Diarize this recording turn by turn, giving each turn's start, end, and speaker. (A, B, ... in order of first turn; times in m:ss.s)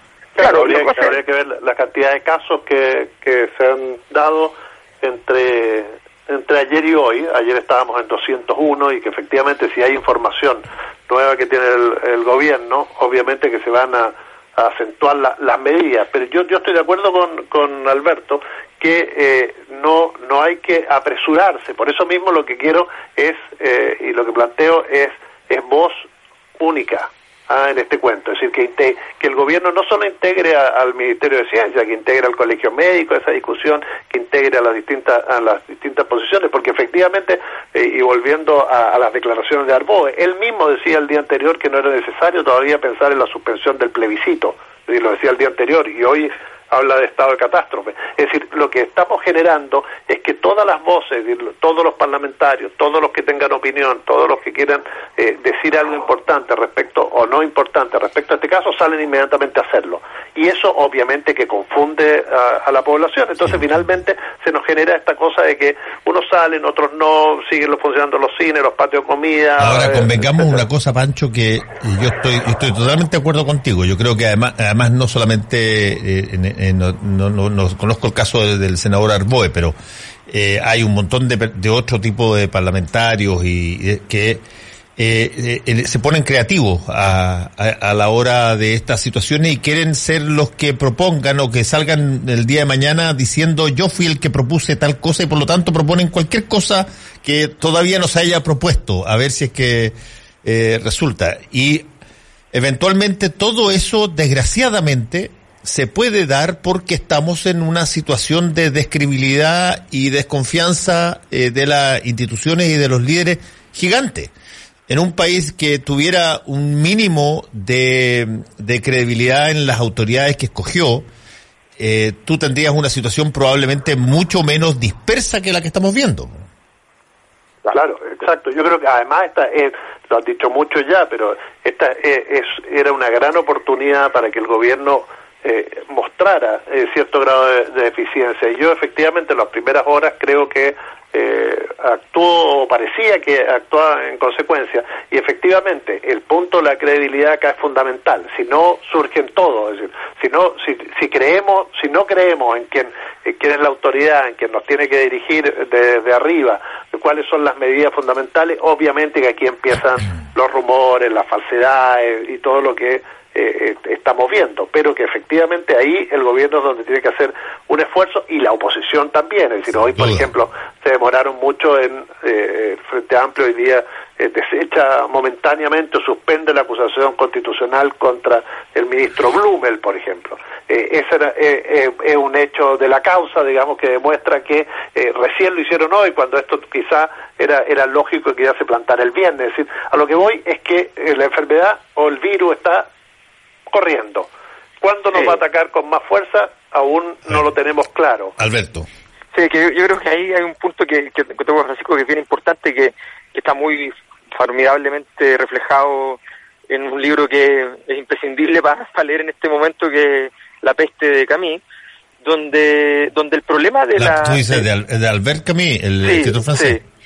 0:00.4-0:26.1 A
0:00.4-0:01.2 B
0:26.6-1:10.6 A
1:09.6-1:19.8 C
1:20.3-1:24.4 C
1:25.0-1:41.9 C
1:42.5-1:54.3 C
1:54.9-2:01.1 C
2:01.8-2:06.4 C
2:07.7-3:12.9 A
2:49.9-2:50.3 C
3:13.7-3:14.3 A
3:14.8-3:18.3 A
3:18.4-3:18.9 C
3:19.3-3:31.6 B
3:32.2-3:34.6 B
3:34.0-3:36.8 C
3:36.0-3:36.8 B